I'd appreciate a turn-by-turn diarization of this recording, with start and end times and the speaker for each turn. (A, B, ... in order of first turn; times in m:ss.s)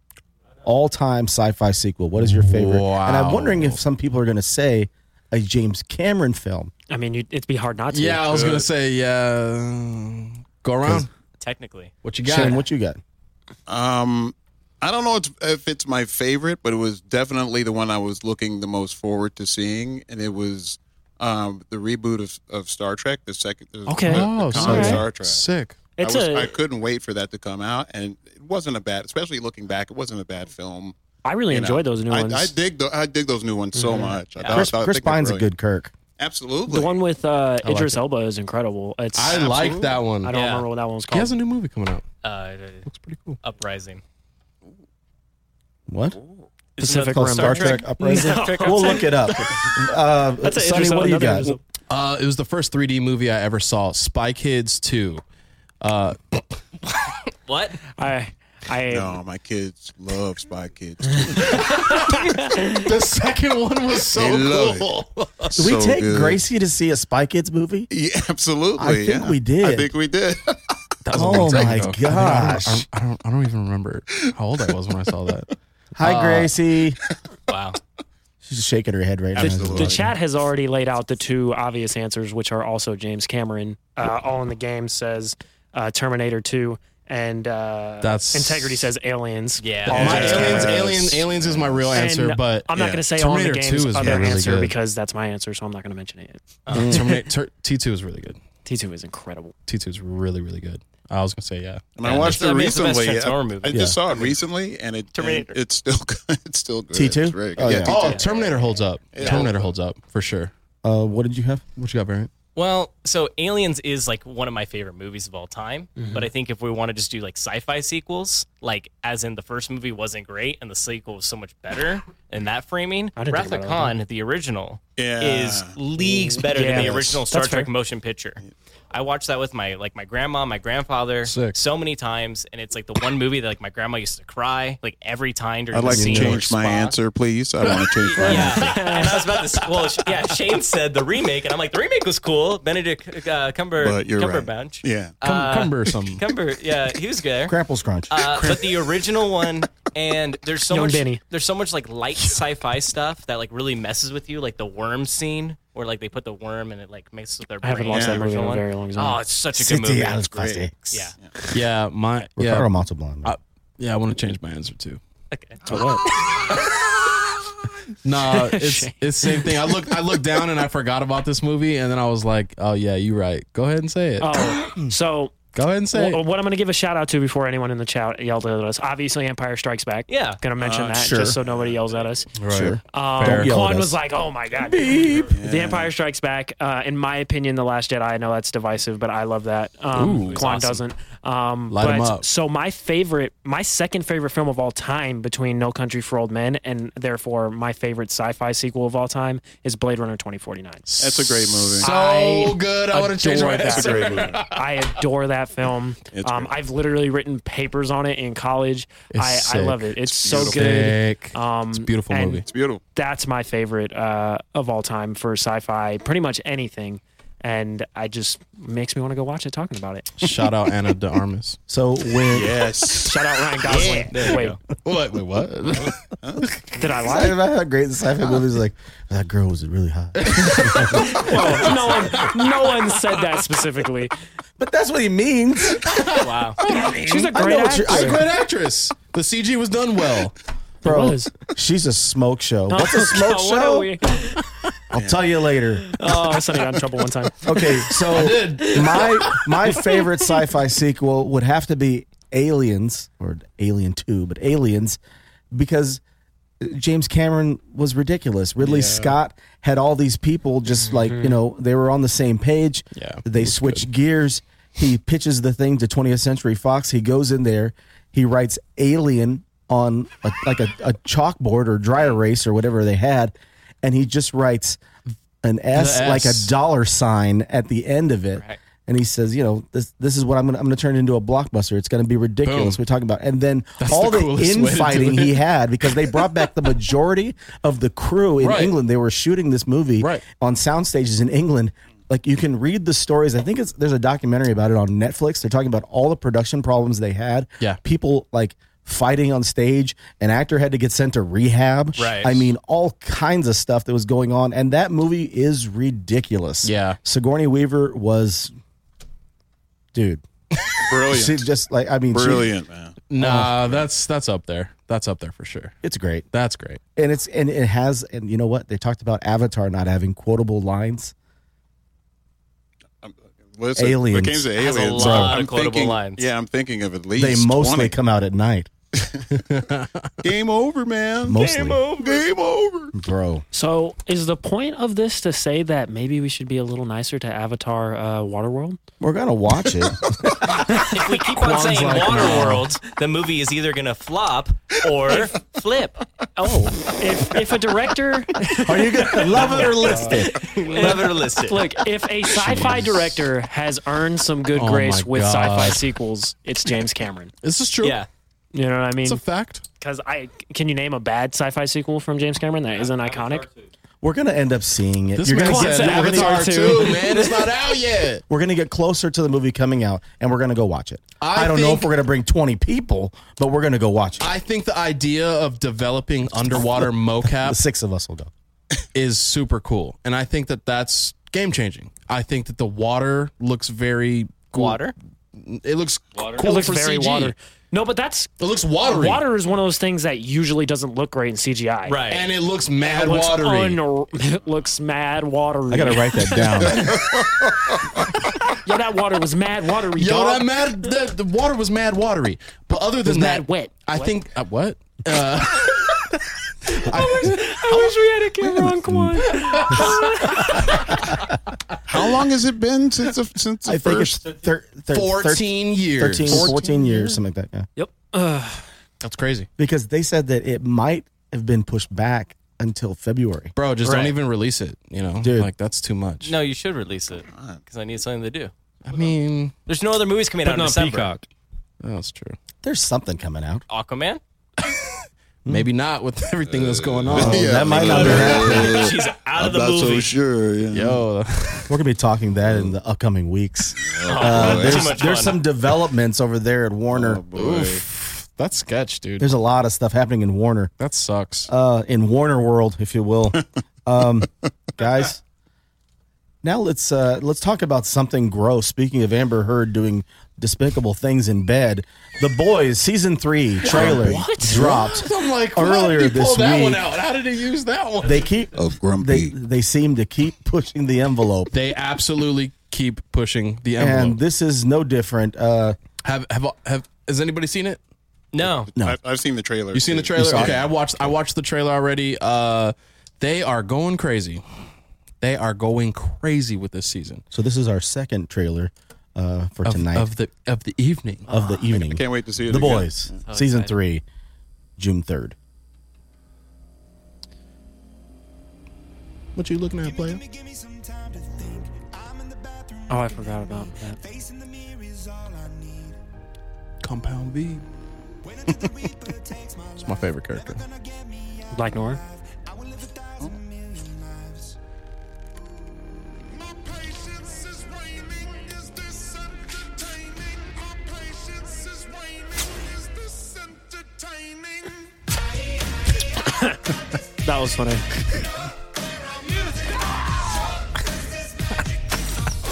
0:00.6-0:06.7 A
0:02.2-0:03.8 B
0:06.9-0:08.4 C
0:07.9-0:11.1 B
0:08.3-0:08.7 D
0:11.4-0:11.9 E
0:12.0-0:12.6 B
0:12.2-0:13.0 A
0:13.7-0:31.0 D
0:23.9-0:25.0 C
0:23.9-0:25.8 B
0:26.0-0:26.5 C
0:31.2-0:32.5 C
0:31.5-0:35.5 D
0:33.7-0:34.2 C
0:34.4-0:34.7 E
0:34.5-0:35.9 A
0:36.2-0:37.0 D
0:36.7-0:39.5 C
0:37.6-0:38.0 B
0:39.1-0:40.3 B
0:39.3-0:40.0 D
0:40.2-0:41.4 C
0:40.3-0:40.7 E
0:41.1-0:42.0 B
0:42.2-0:42.8 E
0:42.8-0:43.4 B
0:43.4-0:44.0 E
0:45.9-0:46.2 A
0:46.8-0:49.2 E
0:46.8-0:49.7 C
0:46.9-0:51.6 A
0:50.4-0:51.6 C
0:51.9-0:55.2 B
0:55.8-0:56.6 B
0:57.5-0:57.8 E
0:58.0-0:59.2 C
0:58.9-1:01.8 D
1:01.2-1:02.8 C
1:01.6-1:05.6 B
1:04.0-1:04.9 D
1:05.5-1:06.4 D
1:05.6-1:07.9 A
1:07.9-1:11.7 D
1:08.8-1:09.9 A
1:11.0-1:15.5 B
1:11.1-1:12.8 A
1:14.2-1:14.7 D
1:16.0-1:17.0 A
1:16.0-1:16.5 B
1:17.5-1:17.8 E
1:18.4-1:20.1 A
1:19.3-1:20.1 D
1:19.4-1:30.7 C
1:28.0-1:28.9 B
1:29.6-1:30.8 E
1:29.8-1:34.7 B
1:29.9-1:32.0 D
1:31.9-1:37.2 C
1:32.7-1:33.0 D
1:36.6-1:36.9 E
1:36.7-1:38.4 B
1:38.6-1:39.5 C
1:39.7-1:42.4 B
1:42.0-1:49.7 D
1:42.0-1:44.3 E
1:43.7-1:44.0 A
1:45.1-1:45.6 E
1:46.9-1:48.0 A
1:47.8-1:50.5 B
1:47.9-1:48.2 E
1:49.2-1:49.5 E
1:50.8-1:51.6 A
1:51.8-1:52.3 B
1:52.5-2:08.4 E
1:56.0-1:56.3 C
2:03.2-2:04.0 C
2:05.0-2:07.2 D
2:06.5-2:07.7 C
2:08.9-2:17.0 E
2:11.2-2:11.6 B
2:15.7-2:18.8 D
2:15.9-2:16.4 B
2:18.0-2:27.6 E
2:18.2-2:19.1 C
2:23.8-2:25.2 D
2:25.2-2:26.2 B
2:27.5-2:28.4 A
2:28.1-2:41.1 E
2:30.7-2:31.2 C
2:37.6-2:39.2 C
2:37.9-2:38.2 D
2:39.5-2:41.1 A
2:40.4-2:40.6 D
2:41.5-2:42.7 B
2:42.4-2:43.3 A
2:43.2-2:45.0 B
2:45.3-2:45.6 E
2:45.7-2:46.0 C
2:48.0-2:54.5 B
2:48.3-2:49.5 C
2:54.2-2:55.3 C
2:55.5-2:56.2 B
2:55.9-3:02.3 C
3:00.1-3:00.4 E
3:00.6-3:02.2 D
3:00.9-3:01.4 A
3:02.4-3:03.5 B
3:02.5-3:04.0 A
3:02.9-3:20.8 C
3:04.6-3:05.3 A
3:05.3-3:05.9 D
3:09.9-3:10.5 B
3:10.3-3:10.8 E
3:11.7-3:12.2 B
3:20.9-3:24.6 B
3:21.0-3:21.9 D
3:21.8-3:32.4 C
3:23.6-3:24.4 D
3:26.1-3:26.5 D
3:29.1-3:32.4 B
3:30.2-3:30.8 D
3:32.4-3:32.8 D
3:32.9-3:40.1 C
3:40.2-3:41.6 B
3:41.7-3:42.5 A
3:42.3-3:43.1 D
3:43.0-3:44.6 C
3:43.6-3:44.3 D
3:43.8-3:44.5 E
3:44.3-3:46.7 B
3:45.8-3:46.6 D
3:46.8-3:47.4 C
3:47.0-3:51.6 A
3:50.2-3:52.9 B
3:50.9-3:54.1 C
3:54.6-3:55.9 A
3:55.8-4:00.3 B
3:56.2-3:56.6 E
3:56.7-3:58.2 C
3:57.2-3:58.2 A
4:00.8-4:03.9 A
4:00.8-4:01.3 C
4:02.7-4:04.4 C
4:04.9-4:05.2 D
4:04.9-4:06.0 A
4:05.9-4:08.0 C
4:07.4-4:15.0 A
4:08.0-4:09.4 B
4:08.6-4:09.1 C
4:15.5-4:16.0 A
4:16.6-4:34.8 A
4:18.6-4:19.1 B
4:20.9-4:21.4 C
4:22.9-4:23.8 B
4:35.4-5:08.5 A
4:35.7-4:36.5 B
4:42.4-4:42.8 B
4:43.8-4:45.4 B
4:48.4-4:48.7 B
4:50.0-4:50.2 B
5:02.0-5:02.5 E
5:06.6-5:07.0 B
5:09.9-5:10.2 A
5:10.8-5:11.4 D
5:11.0-5:12.5 A
5:12.1-5:13.0 D
5:13.1-5:15.7 B
5:13.2-5:13.7 A
5:15.8-5:16.3 A
5:16.3-5:16.8 B
5:17.0-5:21.1 A
5:23.0-5:27.9 D
5:23.8-5:25.4 A
5:24.6-5:26.3 E
5:27.2-5:28.7 A
5:28.9-5:29.2 D
5:29.3-5:30.1 B
5:30.2-5:32.9 D
5:31.2-5:31.8 A
5:31.4-5:32.3 E
5:32.9-5:33.4 A
5:33.5-5:38.8 C
5:39.0-5:40.0 A
5:40.7-5:46.0 E
5:41.3-5:42.7 B
5:46.4-5:57.3 C
5:48.6-5:50.3 A
5:50.3-5:51.7 E
5:52.4-5:53.1 B
5:54.5-5:55.9 B
5:57.4-5:58.0 B
5:57.8-5:58.1 E
5:58.5-5:59.2 C
5:59.0-5:59.6 B
5:59.8-6:03.5 C
6:04.0-6:06.7 A
6:05.2-6:08.2 B
6:05.4-6:07.4 C
6:08.3-6:14.3 A
6:11.2-6:11.9 B
6:14.2-6:17.6 B
6:16.5-6:18.3 A
6:18.9-6:27.3 B
6:24.5-6:24.9 E
6:26.4-6:28.3 C
6:28.4-6:29.2 B
6:28.8-6:32.0 C
6:31.8-6:32.3 E
6:32.1-6:33.8 B
6:32.8-6:36.9 C
6:35.7-6:37.0 A
6:36.8-6:37.7 D
6:38.6-6:40.5 C
6:39.9-6:48.0 B
6:43.0-6:44.1 C
6:46.8-6:50.9 C
6:49.2-6:50.8 B
6:51.9-6:54.2 D
6:53.6-6:57.7 A
6:54.9-6:56.6 B
6:56.3-6:56.6 C
6:57.8-6:58.6 C
6:59.0-6:59.5 B
6:59.6-7:03.5 A
7:03.6-7:06.3 B
7:03.8-7:04.1 E
7:05.2-7:05.5 A
7:06.2-7:08.5 E
7:07.3-7:07.6 D
7:08.8-7:09.5 B
7:09.7-7:11.1 E
7:10.4-7:11.0 B
7:11.8-7:12.4 B
7:12.6-7:13.6 A
7:13.7-7:14.2 E
7:15.5-7:18.8 B
7:16.4-7:21.0 D
7:17.1-7:18.9 A
7:18.0-7:20.2 E
7:20.7-7:21.7 B
7:21.7-7:27.2 A
7:23.8-7:25.2 D
7:24.0-7:25.4 E
7:26.9-7:27.8 D
7:27.3-7:29.3 B
7:29.2-7:30.7 A
7:30.8-7:31.5 B
7:31.5-7:35.2 A
7:36.4-7:46.8 A
7:43.6-7:44.7 C
7:43.6-7:48.2 B
7:48.0-7:51.5 A
7:48.5-7:49.3 D
7:51.5-7:54.2 B
7:53.8-7:55.8 A
7:56.0-7:57.8 B
7:58.3-7:58.7 E
7:58.8-8:01.1 D
7:59.7-8:04.4 B
8:00.2-8:00.6 A
8:05.2-8:07.2 B
8:07.3-8:10.1 A
8:09.6-8:11.3 B
8:11.3-8:14.0 A
8:11.6-8:13.2 D
8:13.2-8:13.7 E
8:14.8-8:15.4 A
8:19.4-8:20.2 B
8:22.9-8:24.0 C
8:26.8-8:27.6 B
8:29.7-8:30.6 B
8:31.5-8:32.0 C
8:46.2-8:46.6 C
8:47.2-8:47.8 C